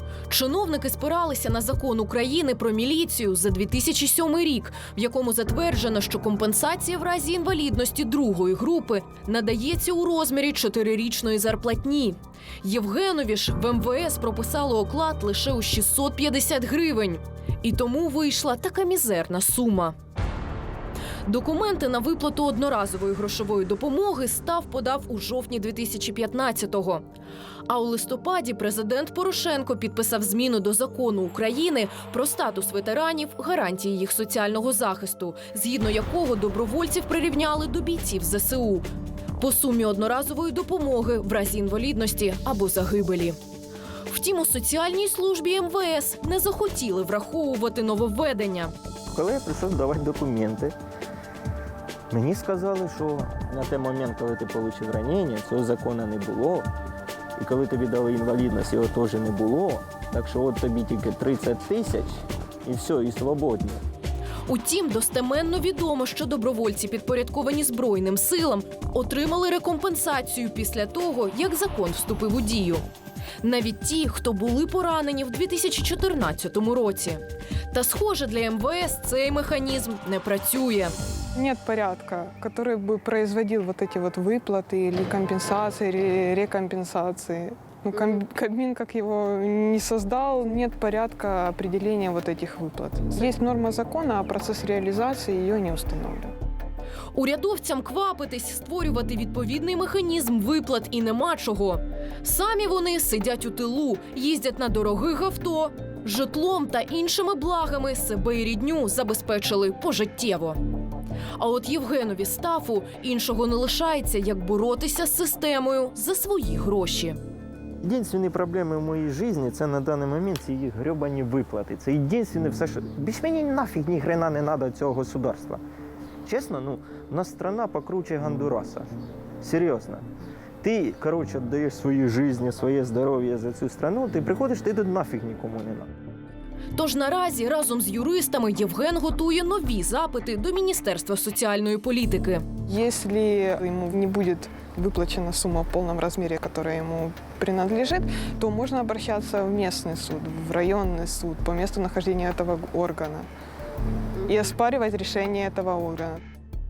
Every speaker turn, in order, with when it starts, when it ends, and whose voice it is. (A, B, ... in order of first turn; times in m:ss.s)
0:00.3-0:19.9 A
0:21.2-0:27.0 A
0:27.7-0:38.9 A
0:39.4-0:43.4 A
0:44.1-0:48.7 A
0:49.1-0:50.7 B
0:52.1-0:56.7 B
0:57.4-1:03.8 B
1:04.5-1:12.8 A
1:13.4-1:21.0 A
1:21.3-1:36.3 C
1:37.1-1:50.6 A
1:51.4-1:57.2 A
1:57.8-2:05.6 B
2:06.2-2:10.0 B
2:10.6-2:15.9 B
2:16.7-2:22.4 A
2:22.7-2:33.3 C
2:34.3-2:36.2 C